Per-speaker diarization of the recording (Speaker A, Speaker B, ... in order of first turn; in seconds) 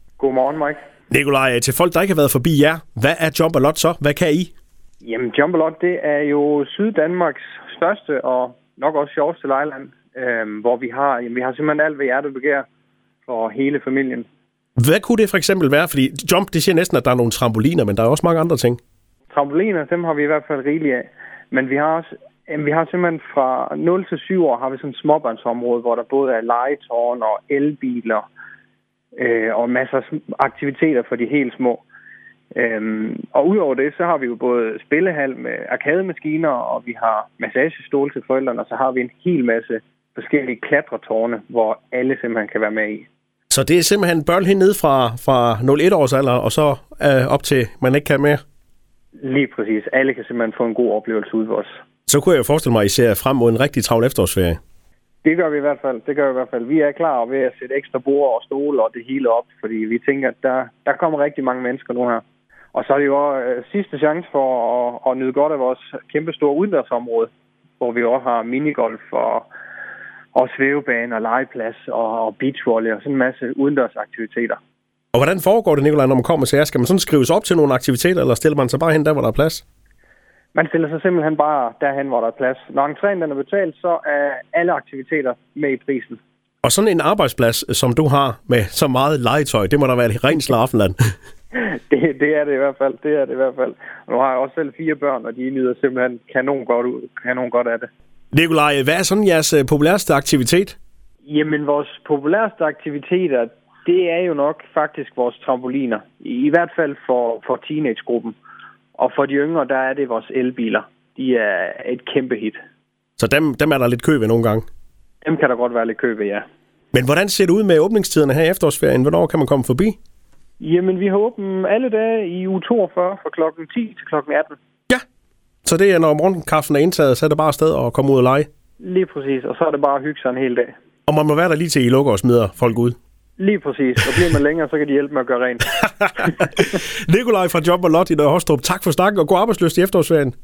Speaker A: 0.2-0.8, 5.0-12.7, 13.2-14.2, 19.3-28.2, 29.1-31.8, 32.5-43.1, 49.2-51.8, 55.2-62.2, 62.7-69.5, 70.3-74.6, 80.5-86.2, 91.5-97.9, 101.2-108.3, 109.0-112.6, 115.2-116.5, 120.6-124.6, 128.8-130.7, 133.4-136.3
Speaker B: 1.1-4.5, 14.8-18.8, 43.5-48.4, 52.1-54.6, 75.1-79.6, 86.6-91.0, 98.3-100.8, 113.2-114.6, 116.9-120.0, 125.6-128.5, 131.1-132.9, 136.0-140.3